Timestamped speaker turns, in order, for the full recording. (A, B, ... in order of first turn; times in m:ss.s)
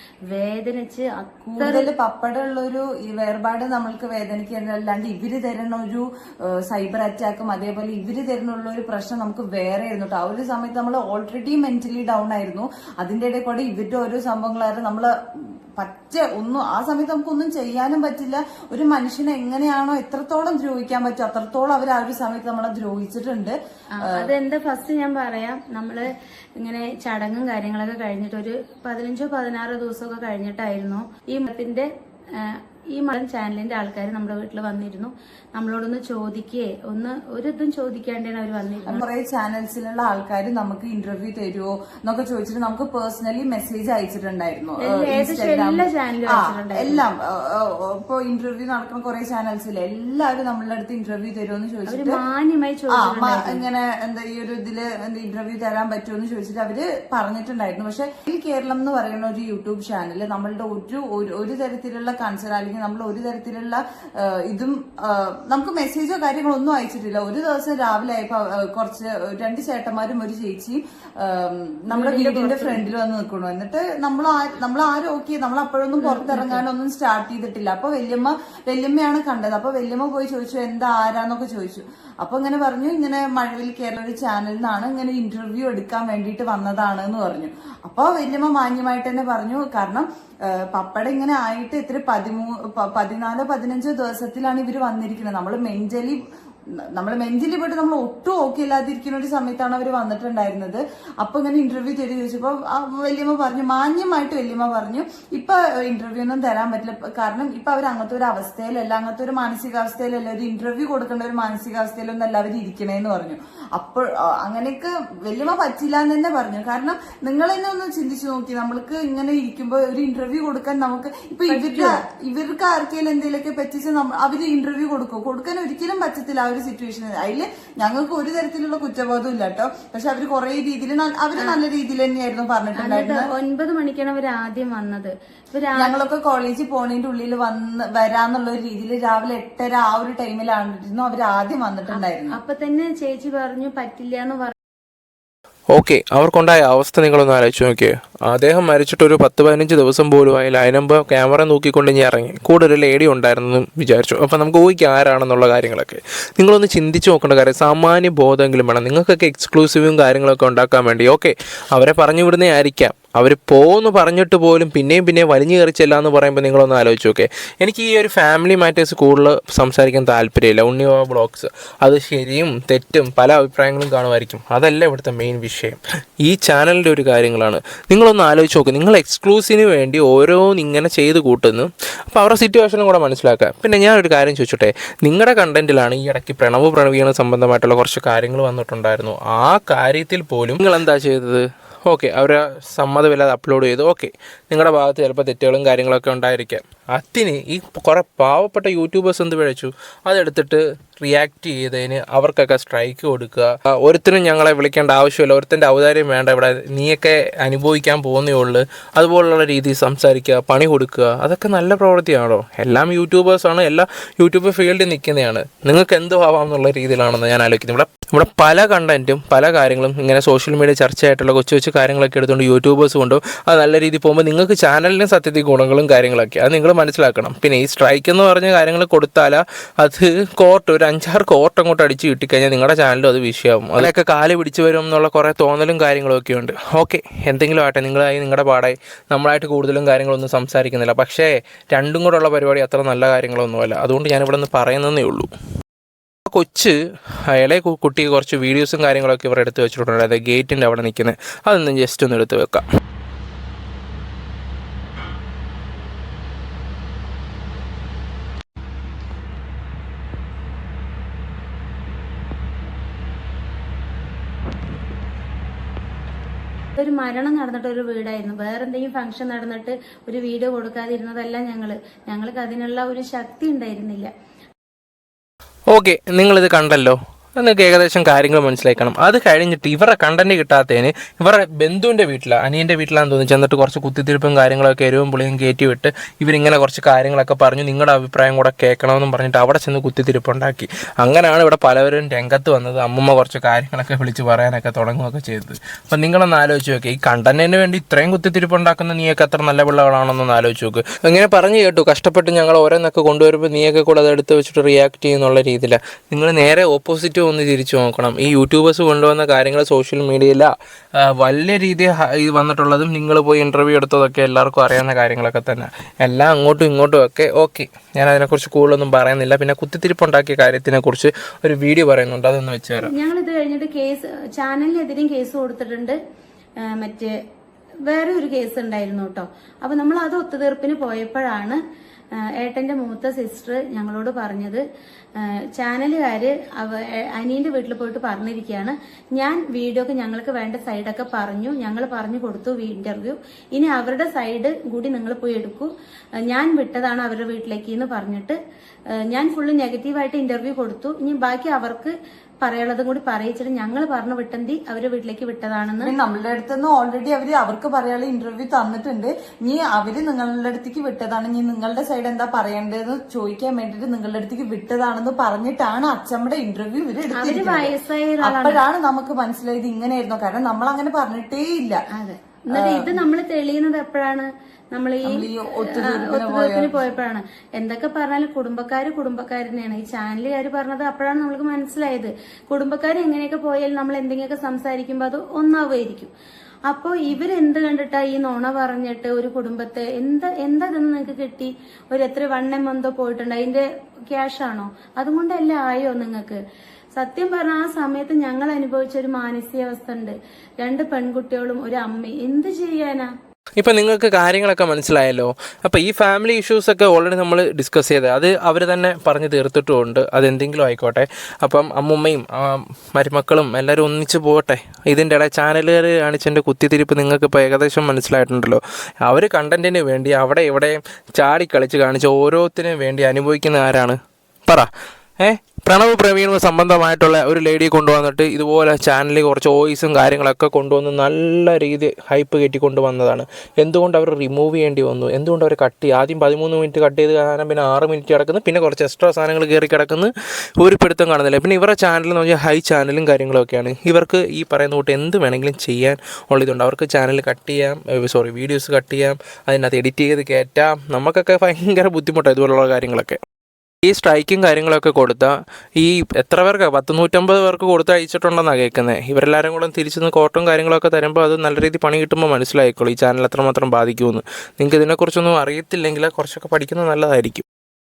0:00.3-0:01.9 A
0:01.5-0:06.0 B
0:06.7-0:15.1 B
0:15.8-0:23.6 B
0:23.9-0:39.0 A
0:38.9-0:52.2 B
0:44.9-0:47.0 A
0:51.9-0:53.6 A
0:52.9-1:36.2 B
1:11.9-1:12.8 A
1:16.0-1:16.6 A
1:37.0-2:13.3 B
2:01.5-2:02.0 A
2:12.8-2:16.0 A
2:15.8-2:22.4 B
2:21.9-2:24.5 A
2:25.7-4:05.3 C
4:06.3-4:06.8 C
4:07.3-4:12.6 C
4:26.8-4:34.1 A
4:35.7-5:22.9 C
5:22.8-5:26.0 A
5:26.6-5:27.1 A
5:27.9-5:31.6 A
5:32.2-5:34.6 A
5:35.2-5:45.7 A
5:46.2-5:48.4 A
5:49.0-5:55.9 A
5:55.8-6:11.8 B
6:07.1-6:08.6 A
6:12.0-6:26.1 A
6:12.6-6:13.0 B
6:15.1-6:16.9 B
6:26.7-6:36.4 A
6:37.0-6:43.1 A
6:43.6-7:04.7 C
7:05.2-7:33.2 C
7:33.8-7:47.4 C